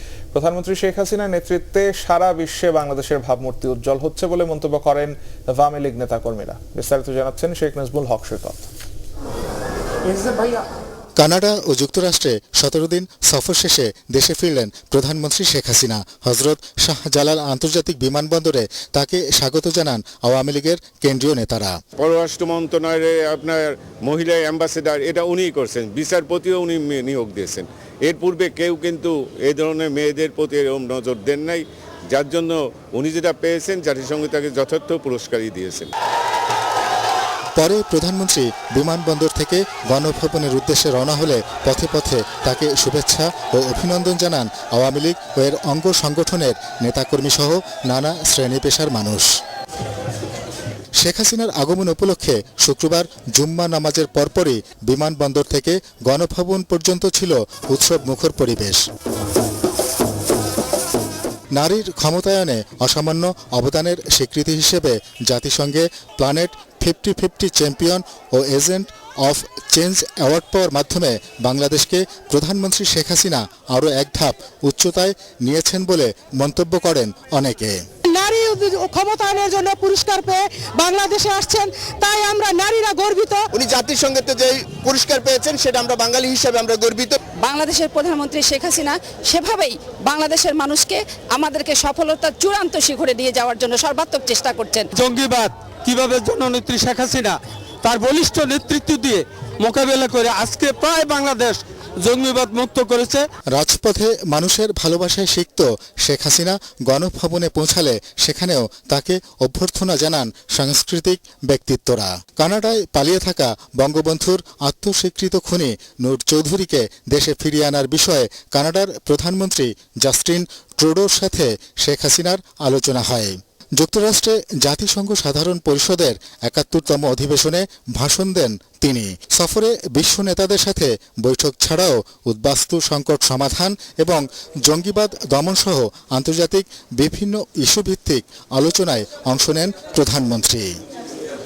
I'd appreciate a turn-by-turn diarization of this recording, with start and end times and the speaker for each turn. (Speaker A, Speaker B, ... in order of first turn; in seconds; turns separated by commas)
Speaker A: 0.3-8.7, Speaker B: 11.2-21.8, Speaker C: 22.1-31.6, Speaker C: 32.2-35.9, Speaker B: 37.6-49.3, Speaker B: 51.0-58.8, Speaker B: 61.5-77.8, Speaker D: 78.0-83.5, Speaker E: 83.5-87.2, Speaker F: 87.4-94.9, Speaker G: 95.0-103.3, Speaker B: 103.5-140.7